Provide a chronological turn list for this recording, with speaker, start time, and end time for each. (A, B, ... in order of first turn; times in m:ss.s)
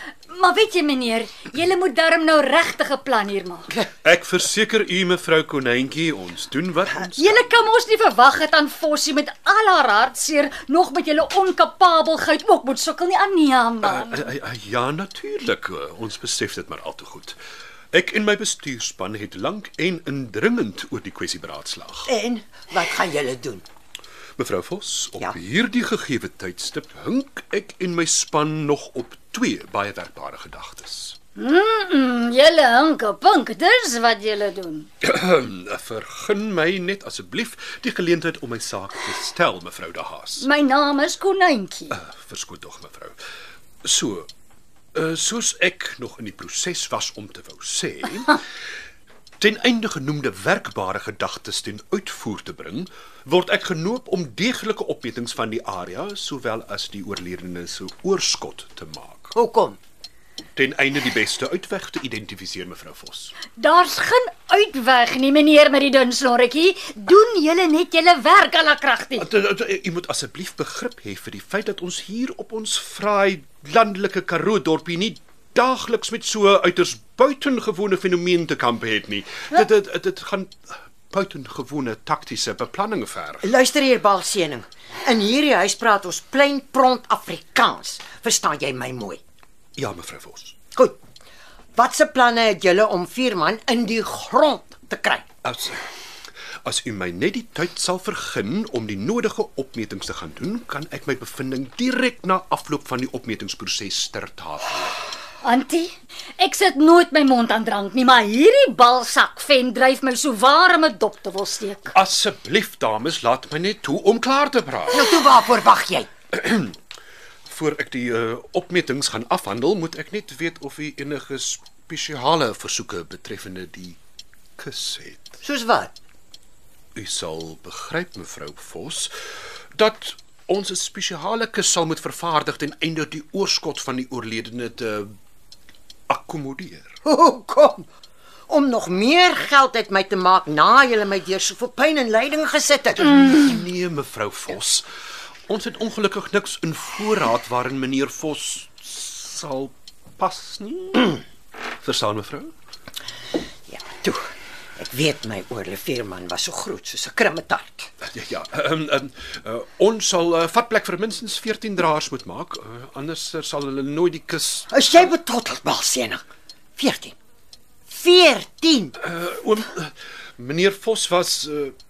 0:00.3-0:03.7 A
0:04.0-0:07.4 B
0:07.1-0:14.3 A
0:13.8-0:17.4 B
0:17.9-0:22.1 B
0:22.1-0:23.6 C
0:24.4-0:31.2 B
0:31.4-0:34.9 A
0:35.0-0:40.4 B
0:40.4-0:42.0 A
0:41.9-0:43.2 B
0:43.8-0:44.3 B
0:44.9-0:48.4 B
0:49.4-0:59.3 B
0:59.3-0:59.8 C
1:00.6-1:03.3 B
1:03.5-1:09.3 A
1:09.2-1:23.5 B
1:23.4-1:29.2 C
1:29.8-1:30.6 B
1:31.8-1:35.2 C
1:35.4-1:35.8 B
1:36.6-1:45.0 B
1:45.4-1:51.9 A
1:51.9-1:55.1 B
1:54.9-1:56.1 C
1:56.3-1:56.8 B
1:57.5-2:04.0 B
2:04.6-2:05.3 B
2:05.4-2:05.9 C
2:06.9-2:09.1 B
2:09.7-2:15.1 B
2:16.1-2:16.9 B
2:17.0-2:17.9 C
2:18.5-2:23.4 C
2:23.0-2:24.9 B
2:25.5-2:31.2 B
2:31.8-2:32.5 B
2:33.7-2:37.9 C
2:38.0-2:44.7 B
2:44.7-2:46.2 C
2:46.8-2:47.2 C
2:47.9-2:49.0 C
2:49.0-2:51.7 B